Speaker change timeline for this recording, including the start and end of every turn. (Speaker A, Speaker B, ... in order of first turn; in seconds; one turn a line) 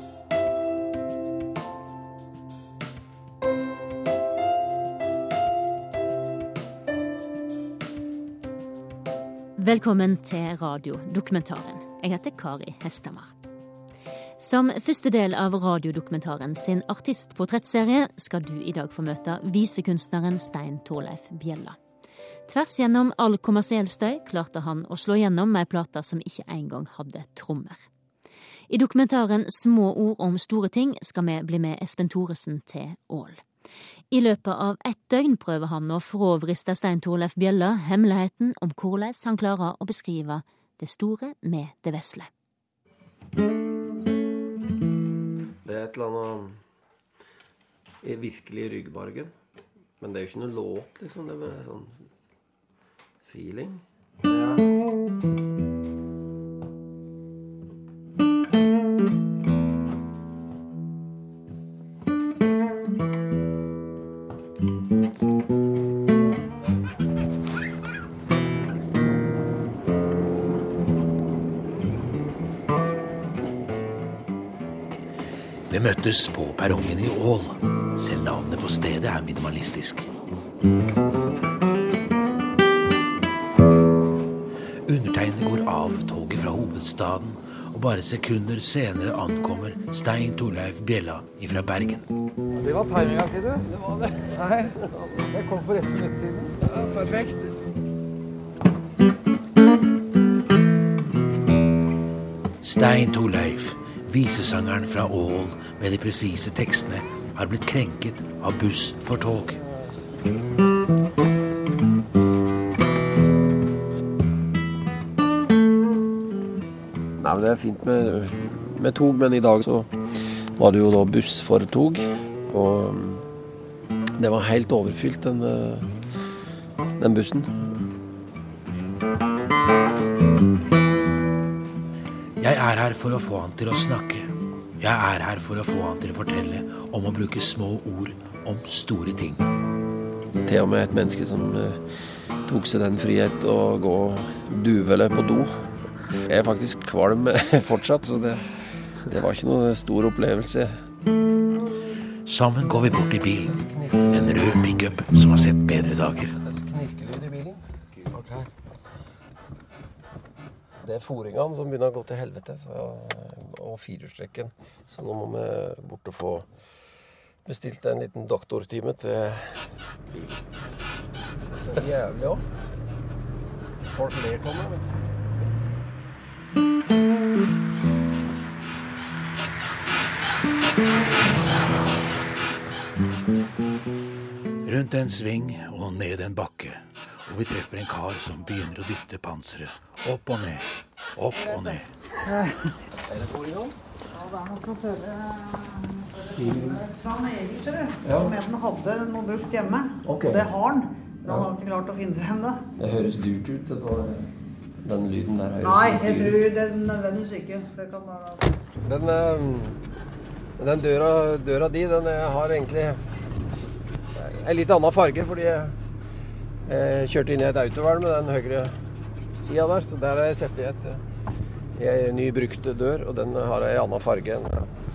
Speaker A: 9.6-13.3
Speaker A: 14.4-21.8
Speaker A: 22.5-27.9
Speaker A: 28.7-33.4
Speaker A: 34.1-42.3
Speaker B: 45.6-46.6
Speaker B: 48.0-49.3
Speaker B: 50.0-52.0
Speaker B: 53.2-54.6
Speaker C: 75.7-80.1
Speaker C: 84.9-92.1
Speaker D: 92.5-93.7
Speaker B: 93.6-95.3
Speaker D: 94.3-94.8
Speaker D: 95.3-96.5
Speaker B: 96.6-97.5
Speaker C: 102.6-109.6
Speaker B: 117.2-119.9
Speaker B: 120.6-123.3
Speaker B: 124.2-125.9
Speaker B: 127.0-127.7
Speaker C: 132.4-139.4
Speaker B: 140.4-141.8
Speaker B: 142.5-145.6
Speaker B: 146.3-150.8
Speaker C: 152.3-156.4
Speaker B: 153.4-154.4
Speaker B: 156.4-157.7
Speaker D: 158.1-158.5
Speaker B: 160.8-166.5
Speaker B: 167.4-170.4
Speaker B: 171.5-172.5
Speaker B: 173.9-175.0
Speaker C: 184.7-191.9
Speaker E: 191.3-192.5
Speaker B: 193.1-193.8
Speaker E: 194.1-202.6
Speaker B: 196.3-196.9
Speaker B: 198.0-198.3
Speaker B: 200.1-200.5
Speaker B: 202.8-204.3
Speaker B: 204.8-206.4
Speaker E: 205.6-208.5
Speaker B: 208.8-209.8
Speaker B: 210.6-213.0
Speaker B: 214.1-215.8
Speaker B: 216.7-218.8
Speaker B: 219.3-221.0
Speaker B: 221.8-224.7